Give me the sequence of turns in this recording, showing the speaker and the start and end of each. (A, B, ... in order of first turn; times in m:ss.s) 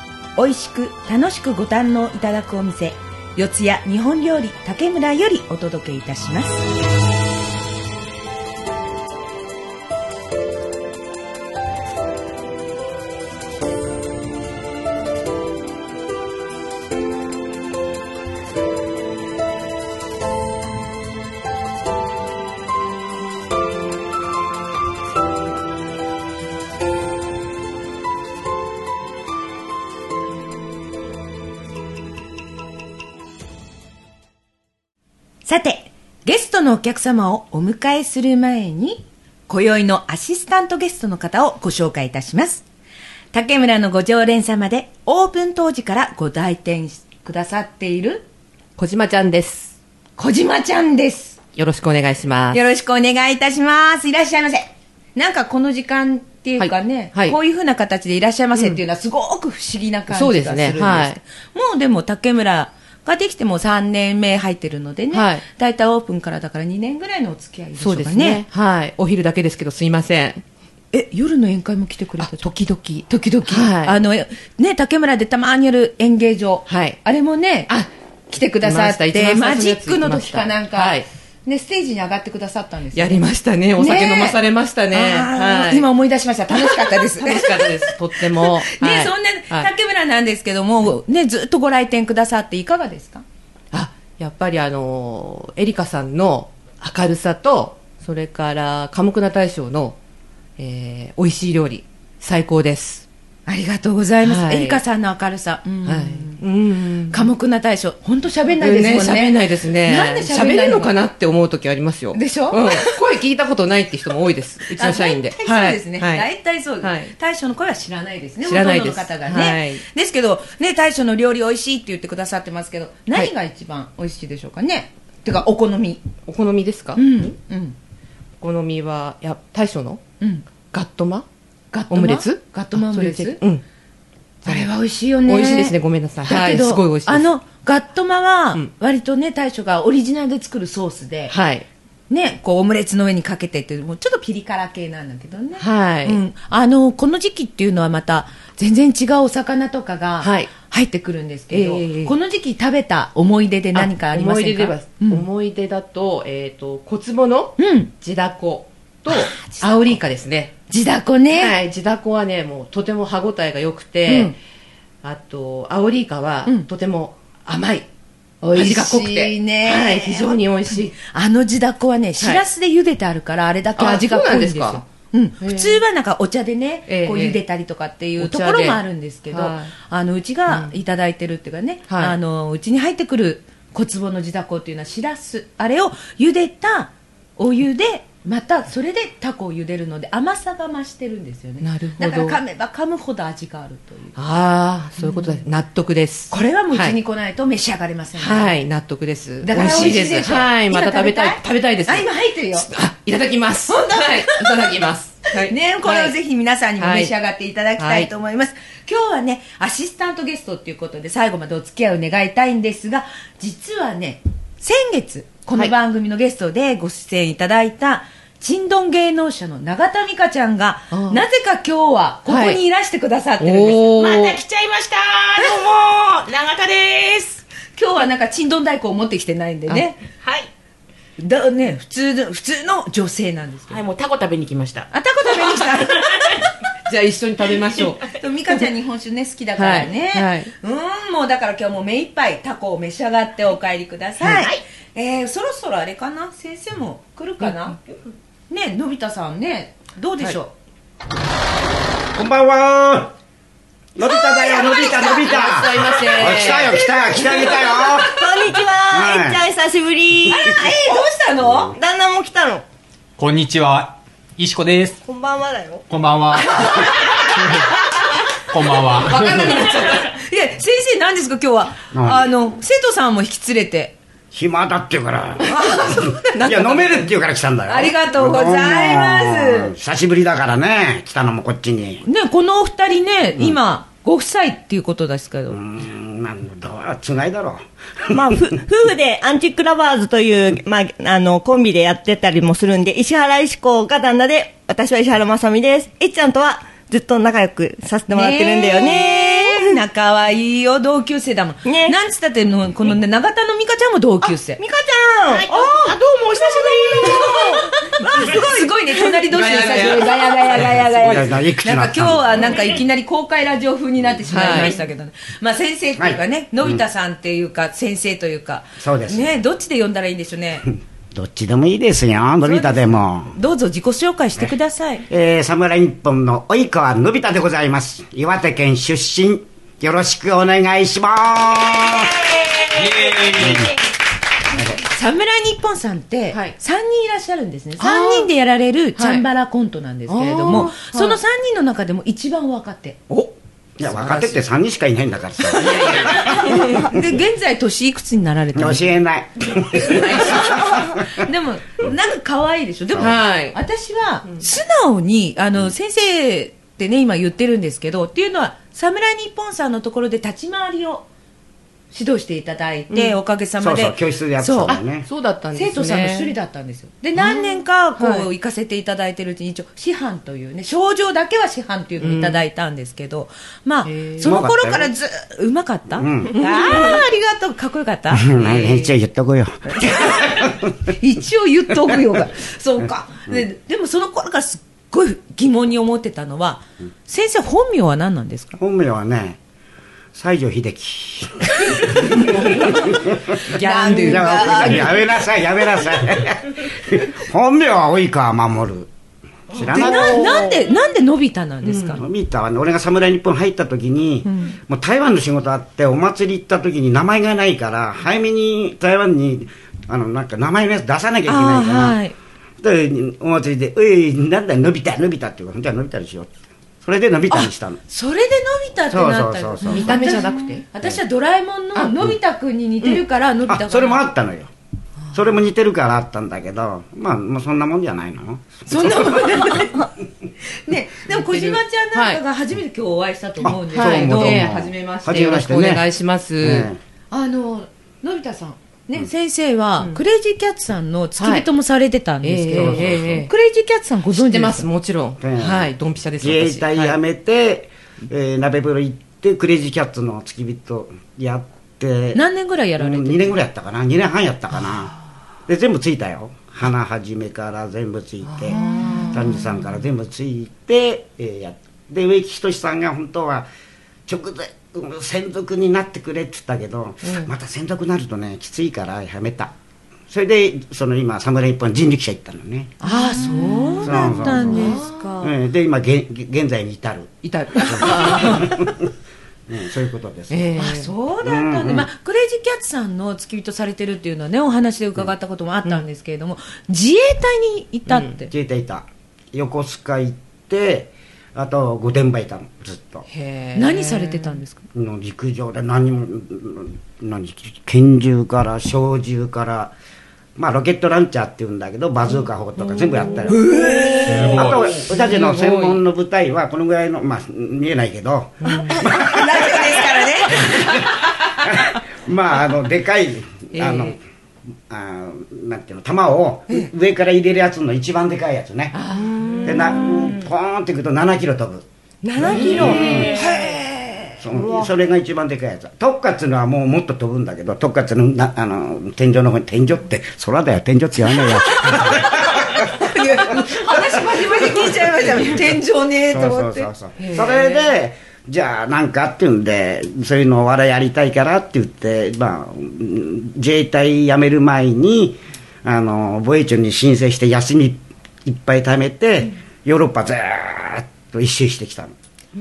0:00.4-0:06.7 A
0:35.4-0:42.6 A
0:43.3-0:48.2 A
0:48.8-0:49.7 B
0:50.2-0:51.4 A
0:51.6-0:52.6 B
0:52.5-1:08.4 A
0:56.6-0:57.4 B
0:58.6-0:58.8 B
1:00.1-1:01.2 B
1:05.1-1:05.4 B
1:07.8-1:10.4 B
1:10.9-1:23.2 A
1:12.2-1:14.0 B
1:16.7-1:17.0 B
1:18.6-1:21.0 B
1:22.9-1:25.9 B
1:23.8-1:24.4 A
1:24.9-1:33.2 A
1:26.5-1:29.7 B
1:33.7-1:40.0 B
1:40.6-1:43.0 B
1:43.5-1:46.4 A
1:44.2-1:44.8 B
1:45.8-1:47.3 B
1:47.1-1:50.9 A
1:48.6-1:56.3 B
1:52.1-1:52.9 A
1:54.7-2:06.0 A
1:56.8-1:57.1 B
1:58.4-1:59.8 B
2:06.2-2:07.3 B
2:07.0-2:07.8 A
2:08.4-2:10.0 B
2:10.2-2:10.4 A
2:10.7-2:11.2 B
2:11.7-2:13.4 A
2:11.9-2:13.6 B
2:14.4-2:15.7 A
2:14.4-2:14.7 B
2:15.2-2:17.3 B
2:16.2-2:21.3 A
2:21.3-2:21.6 B
2:22.1-2:35.2 A
2:25.6-2:26.2 B
2:30.2-2:30.5 B
2:31.5-2:32.1 B
2:33.7-2:40.5 B
2:37.6-2:37.9 A
2:39.1-2:39.9 A
2:40.7-2:41.5 A
2:41.3-2:44.4 B
2:44.1-2:44.3 A
2:45.0-2:47.9 B
2:48.4-2:50.4 A
2:48.5-2:51.0 B
2:51.0-3:14.2 A
2:53.8-2:54.8 B
2:55.4-2:55.8 B
2:56.9-2:57.4 B
2:58.2-2:59.7 B
3:01.9-3:02.1 B
3:11.6-3:12.4 B
3:14.2-3:17.0 B
3:15.0-3:15.4 A
3:16.3-3:18.5 A
3:18.2-3:26.1 B
3:19.4-3:22.7 A
3:23.7-3:24.5 A
3:25.3-3:43.8 A
3:26.8-3:27.1 B
3:27.8-3:28.1 B
3:40.9-3:41.2 B
3:42.3-3:42.6 B
3:43.4-3:44.4 B
3:43.8-3:47.4 C
3:47.8-3:50.0 A
3:50.2-3:50.5 C
3:51.2-3:53.8 A
3:53.7-3:54.9 C
3:54.9-3:56.4 A
3:56.1-3:56.3 C
3:56.8-3:58.1 B
3:58.1-4:07.8 A
3:59.6-4:00.5 B
4:04.2-4:04.6 C
4:08.5-4:10.5 A
4:12.1-4:13.1 D
4:14.0-4:18.2 D
4:14.0-4:15.6 A
4:15.1-4:16.8 B
4:17.8-4:20.6 E
4:18.9-4:19.4 D
4:20.3-4:21.8 A
4:21.4-4:21.7 D
4:21.8-4:22.6 E
4:23.2-4:25.0 F
4:25.0-4:25.8 E
4:25.9-4:26.9 F
4:26.5-4:27.2 A
4:28.5-4:29.6 F
4:28.9-4:34.0 A
4:31.9-4:32.3 D
4:34.3-4:42.0 D
4:35.4-4:36.8 A
4:36.5-4:37.0 B
4:37.7-4:39.7 A
4:42.0-4:45.6 A
4:45.5-4:48.6 D
4:48.1-4:59.8 E
4:58.1-5:04.6 A
5:01.6-5:02.0 E
5:04.6-5:06.0 E
5:05.3-5:07.8 C
5:07.0-5:20.7 A
5:07.0-5:07.4 E
5:08.1-5:08.4 E
5:09.3-5:10.7 B
5:10.6-5:12.6 D
5:14.3-5:14.8 B
5:16.0-5:16.8 D
5:18.8-5:19.4 D
5:21.1-5:23.4 D
5:22.4-5:25.0 A
5:25.1-5:32.3 D
5:32.8-5:33.6 F
5:33.2-5:33.7 D
5:34.5-5:34.8 D
5:34.7-5:43.0 A
5:37.8-5:38.3 B
5:39.0-5:39.2 B
5:40.1-5:41.2 B
5:43.8-5:46.7 D
5:43.8-5:44.4 B
5:45.5-5:46.9 B
5:45.8-5:49.0 A
5:48.5-5:50.8 D
5:50.0-6:01.0 A
5:50.0-5:50.4 B
5:53.0-5:53.6 B
6:01.9-6:04.8 A
6:02.9-6:03.1 B
6:03.6-6:05.1 D
6:04.7-6:06.3 B
6:05.5-6:18.5 A
6:07.2-6:08.3 B
6:12.0-6:12.4 B
6:13.8-6:14.3 B
6:14.2-6:14.9 D
6:16.0-6:16.3 D
6:16.4-6:17.0 B
6:18.1-6:20.9 D
6:18.4-6:18.9 B
6:19.7-6:28.6 A
6:28.6-6:29.4 D
6:30.1-6:33.4 D
6:32.6-6:34.9 A
6:33.5-6:34.9 B
6:34.0-6:38.9 D
6:39.5-6:40.4 D
6:39.7-6:42.0 A
6:39.7-6:40.3 B
6:41.6-6:41.9 B
6:42.0-6:52.0 D
6:44.2-6:44.6 A
6:51.3-6:52.1 A
6:52.6-6:56.3 D
6:56.8-6:57.8 D
6:57.3-7:04.0 A
6:58.9-7:00.1 D
6:59.7-7:00.6 B
7:03.5-7:04.5 D
7:05.1-7:08.9 D
7:08.7-7:09.9 A
7:10.6-7:15.3 A
7:11.1-7:12.2 B
7:13.4-7:15.8 D
7:13.7-7:16.7 B
7:16.4-7:16.8 D
7:17.1-7:24.6 A
7:21.2-7:21.4 B
7:22.2-7:23.3 B
7:22.5-7:23.3 D
7:24.2-7:27.0 B
7:25.2-7:32.2 D
7:32.1-7:33.3 A
7:32.8-7:34.9 D
7:35.5-7:38.6 D
7:38.4-7:39.4 B
7:38.5-7:39.2 A
7:39.1-7:43.5 D
7:44.1-7:49.5 D
7:50.1-7:52.7 D
7:52.8-7:55.3 A
7:52.8-7:55.0 B
7:53.8-7:58.8 D
7:57.2-7:58.7 B
7:57.8-7:58.4 A
7:59.5-8:00.5 D
8:00.3-8:00.9 B
8:00.6-8:08.3 A
8:01.2-8:01.9 D
8:08.3-8:13.0 D
8:13.1-8:14.4 B
8:13.5-8:14.6 A
8:14.7-8:19.7 D
8:20.4-8:23.4 D
8:22.8-8:25.8 B
8:23.3-8:24.5 A
8:24.1-8:34.0 D
8:24.1-8:24.7 F
8:28.4-8:28.8 B
8:28.5-8:30.8 A
8:33.6-8:33.9 B
8:34.7-8:38.7 D
8:38.8-8:40.1 B
8:39.4-8:41.6 D
8:42.0-8:43.0 E
8:42.2-8:43.2 D
8:42.2-8:43.0 B
8:42.4-8:44.2 A
8:44.2-8:52.7 D
8:51.5-8:56.7 A
8:53.3-8:53.8 D
8:56.0-9:12.0 D
8:57.0-8:57.6 B